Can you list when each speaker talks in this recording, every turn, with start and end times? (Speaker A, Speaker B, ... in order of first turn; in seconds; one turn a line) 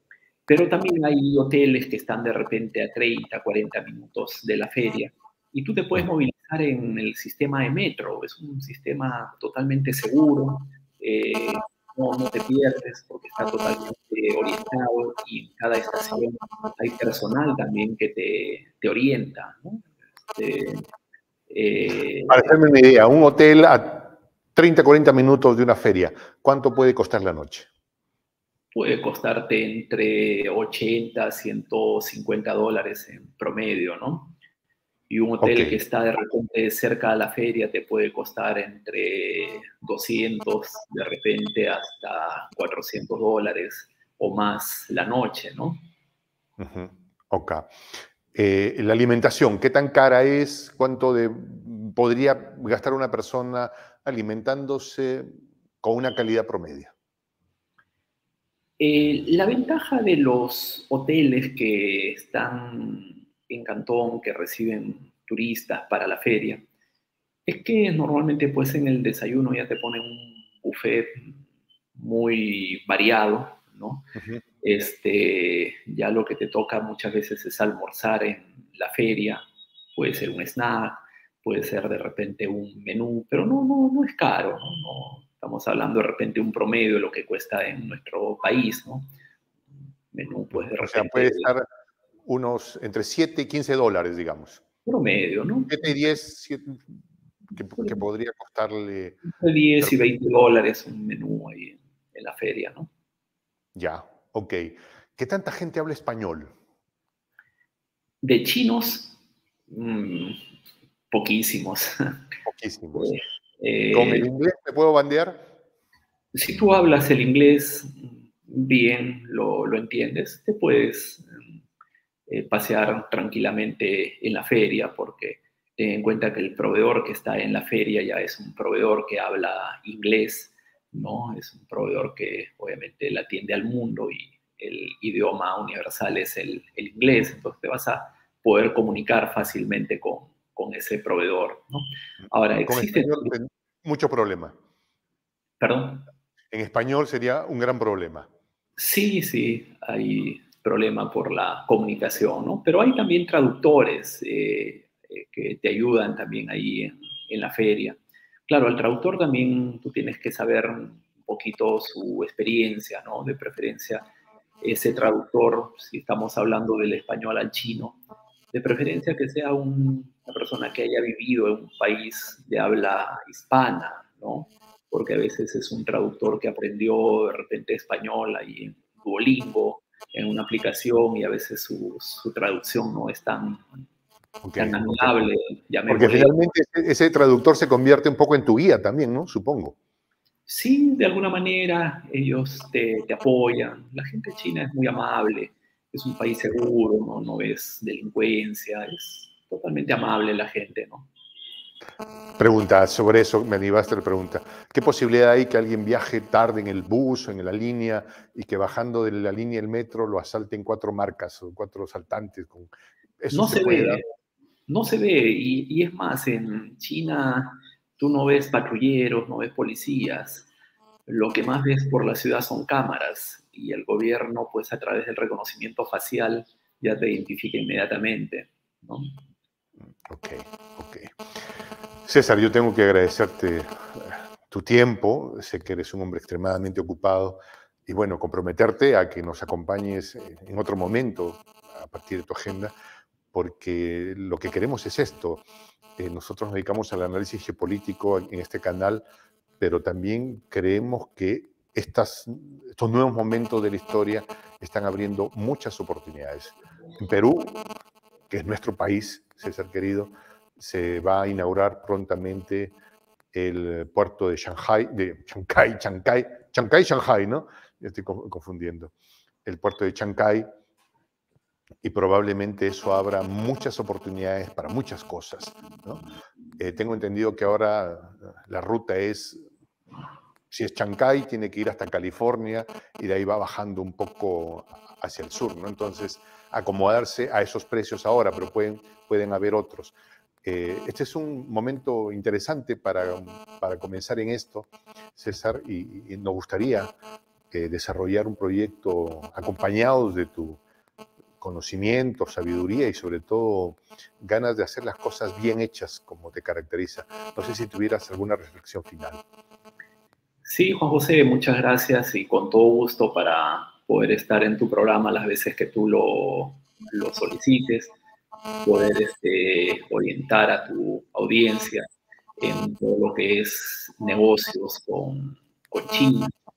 Speaker A: 0.5-20.9
Speaker A: 21.5-22.6
Speaker B: 22.3-27.7
Speaker A: 28.7-34.3
Speaker A: 35.1-45.8
Speaker B: 35.4-35.8
Speaker B: 46.6-47.7
Speaker B: 48.3-56.9
Speaker A: 58.8-66.6
Speaker A: 67.5-71.4
Speaker A: 72.0-74.0
Speaker B: 74.2-74.4
Speaker A: 74.6-79.4
Speaker A: 80.0-89.1
Speaker A: 90.1-91.5
Speaker B: 90.5-91.7
Speaker B: 92.3-94.6
Speaker A: 94.9-95.9
Speaker B: 95.7-97.0
Speaker B: 97.5-99.2
Speaker A: 99.3-102.9
Speaker B: 103.8-106.5
Speaker A: 108.2-110.4
Speaker A: 111.1-112.2
Speaker B: 112.4-113.2
Speaker A: 113.0-114.3
Speaker B: 113.9-115.5
Speaker A: 116.3-121.6
Speaker A: 122.3-143.3
Speaker B: 142.7-144.6
Speaker A: 145.6-146.0
Speaker B: 146.5-148.3
Speaker A: 148.8-164.1
Speaker A: 164.6-168.0
Speaker A: 168.5-183.8
Speaker B: 184.4-185.2
Speaker A: 184.6-186.4
Speaker B: 185.9-189.8
Speaker A: 190.5-201.1
Speaker B: 202.4-214.0
Speaker A: 213.3-214.0
Speaker A: 214.7-220.5
Speaker A: 221.1-229.2
Speaker B: 230.1-231.2
Speaker B: 232.1-242.7
Speaker B: 243.3-245.4
Speaker B: 246.0-249.0
Speaker B: 249.6-257.6
Speaker B: 258.3-262.8
Speaker B: 263.3-268.9
Speaker B: 269.4-270.5
Speaker B: 271.8-276.1
Speaker B: 276.6-279.4
Speaker B: 280.5-296.9
Speaker B: 297.5-300.6
Speaker B: 301.4-309.2
Speaker A: 310.5-317.9
Speaker A: 318.6-321.9
Speaker A: 322.4-326.3